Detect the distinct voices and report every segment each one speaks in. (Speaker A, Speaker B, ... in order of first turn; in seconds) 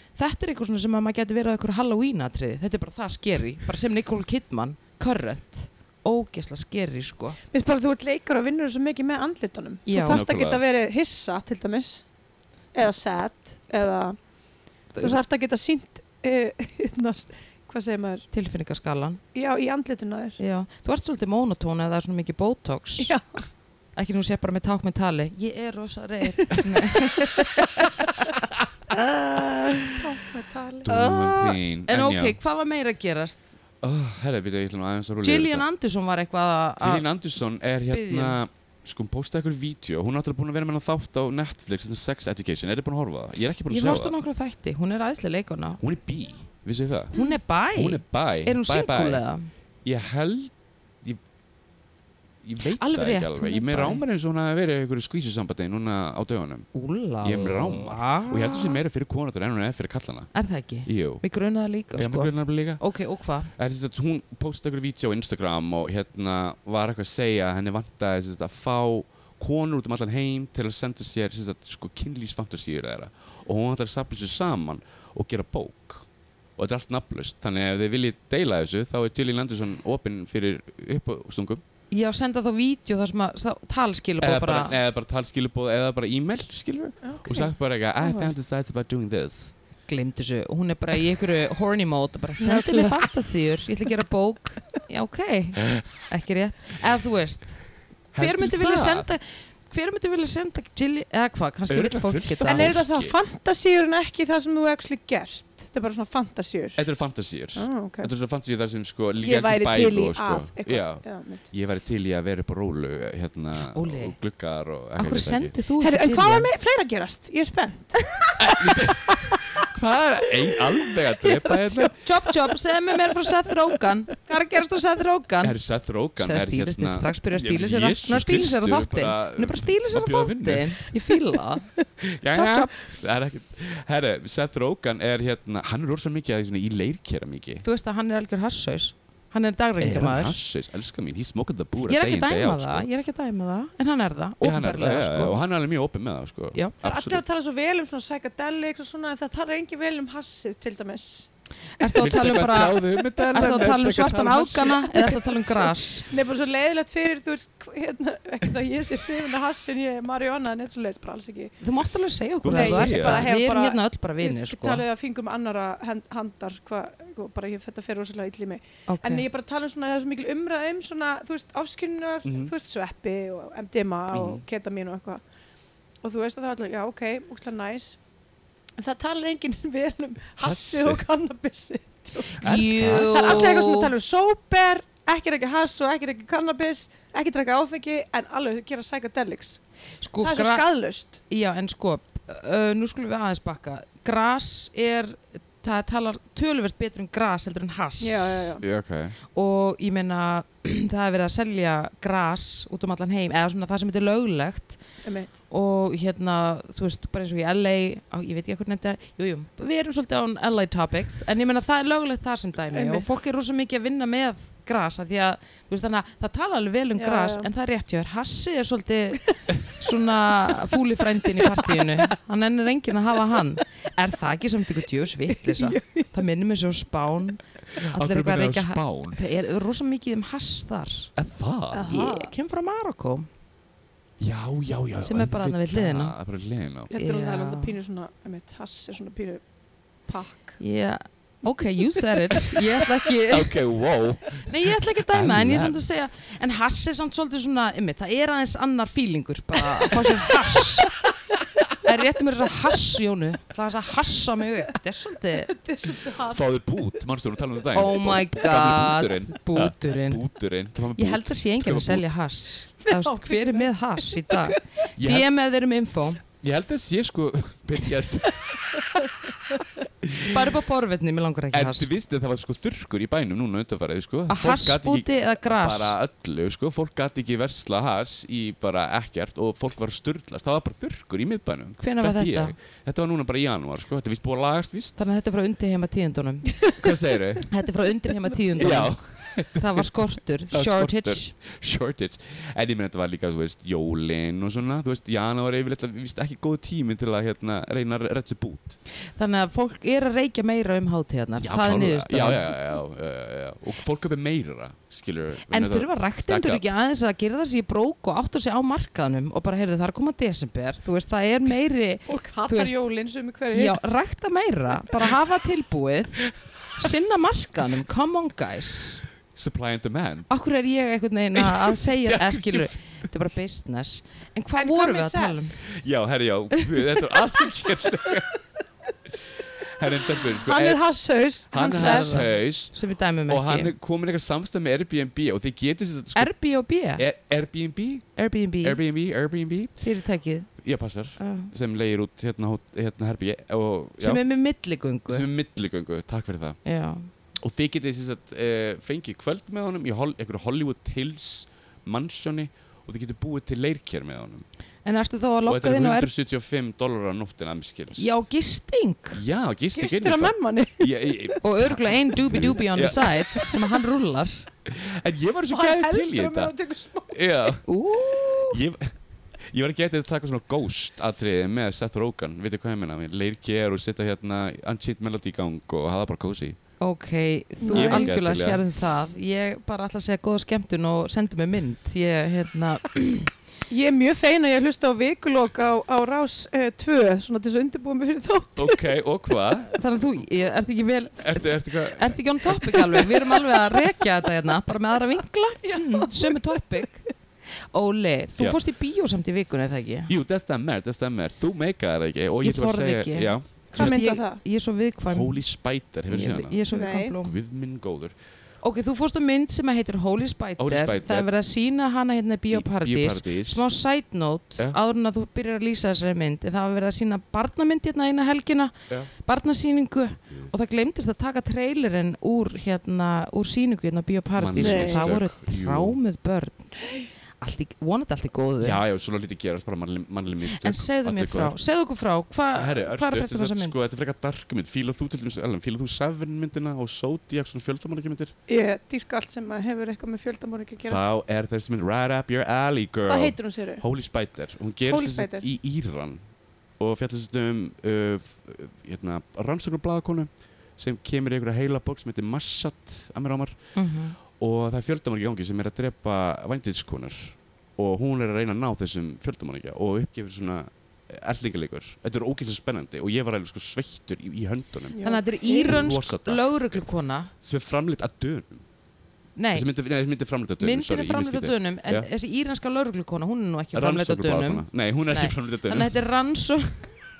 Speaker A: 0.2-7.4, 9.9-10.2, 18.3-19.2, 20.4-23.1, 23.9-30.0, 30.9-33.4, 35.2-37.0, 37.9-38.4, 43.7-45.8, 47.1-49.5, 52.8-54.0, 56.7-58.8, 60.3-63.5, 81.9-84.8, 89.9-97.6, 98.2-102.8, 113.6-114.2, 115.0-116.5, 122.0-125.5, 126.2-131.7, 132.3-132.7, 137.6-140.4, 141.8-145.4, 151.8-156.1, 161.6-164.8, 168.9-169.2, 182.4-183.9, 190.0-190.6, 191.3-198.5, 199.3-204.8, 205.5-231.1, 231.8-233.3, 235.0-236.1, 236.9-237.8, 240.6-243.6, 244.4-251.0, 251.8-255.5, 257.7-260.2, 261.0-266.2, 270.2-271.9, 274.3-275.9, 281.8-282.5, 285.0-286.6, 287.5-291.3, 299.1-302.5, 305.5-312.7, 313.5-319.0, 320.3-325.6, 331.7-333.7, 336.1-337.0, 338.2-338.8, 339.8-340.5, 341.2-341.5, 344.0-345.3, 346.6-347.1, 354.8-356.1, 357.9-359.2, 361.4-364.5, 367.6-368.6, 376.8-383.3, 389.7-397.0, 397.7-400.1, 402.4-405.4, 406.1-407.3, 408.6-426.8, 427.4-428.8, 430.5-433.8, 453.7-454.2, 465.0-467.3, 469.4-469.7, 470.6-477.0
Speaker B: 7.5-12.0, 12.7-14.2, 15.0-18.3, 19.3-20.4, 23.0-23.4, 26.5-27.3, 29.9-30.9, 87.0-87.5, 92.4-93.0, 102.5-106.8, 107.5-108.1, 109.2-111.5, 115.8-119.7, 120.5-123.3, 146.8-151.3, 153.0-154.0, 154.7-161.6, 162.5-175.2, 176.0-178.0, 178.8-189.6, 190.2-191.2, 198.0-198.6, 205.0-205.3, 212.7-213.1, 217.0-217.5, 221.3-222.0, 225.3-226.1, 231.7-232.3, 236.9-239.4, 240.1-240.6, 241.9-242.6, 255.4-256.4, 262.8-264.6, 268.7-269.8, 288.2-288.8, 312.1-313.8, 324.6-325.4, 330.1-332.2, 359.7-361.3, 365.5-367.5, 377.6-378.1, 383.7-388.9, 395.6-396.9, 403.7-404.4, 406.7-407.1, 424.6-425.1, 438.5-441.0, 443.1-443.8, 444.9-445.4, 464.9-465.8
Speaker C: 10.1-10.6, 30.8-32.4, 33.8-35.6, 36.8-44.1, 45.8-47.1, 47.7-49.2, 49.8-51.2, 52.4-56.7, 57.2-60.3, 60.9-61.2, 62.0-62.8, 63.5-76.0, 76.6-81.6, 84.2-89.5, 98.1-99.1, 101.7-103.2, 106.8-115.5, 118.4-122.0, 125.4-130.7, 132.0-137.6, 139.8-142.9, 144.4-147.2, 152.0-154.8, 162.4-163.3, 172.2-172.5, 174.1-174.4, 180.4-181.0, 182.4-183.6, 198.6-199.2, 227.7-229.2, 231.2-232.0, 234.2-236.9, 243.3-245.8, 256.0-262.1, 265.0-265.3, 266.4-268.8, 270.0-270.5, 271.5-285.1, 286.8-287.5, 288.6-289.9, 290.5-298.8, 301.4-306.6, 319.3-320.3, 321.3-322.8, 325.7-328.3, 329.1-330.8, 331.5-332.8, 333.3-336.3, 337.0-338.1, 338.6-339.8, 340.6-344.2, 345.1-346.6, 347.4-354.4, 355.4-358.1, 359.1-363.4, 364.6-366.5, 367.1-367.6, 368.5-376.6, 377.7-378.6, 388.6-389.8, 391.2-392.8, 400.1-404.0, 405.1-406.6, 407.2-408.1, 410.6-411.3, 412.5-413.6, 424.4-426.0, 428.6-431.6, 432.5-438.3, 440.8-446.2, 446.8-453.6, 454.3-466.9, 467.4-468.6, 469.5-472.1, 473.7-476.0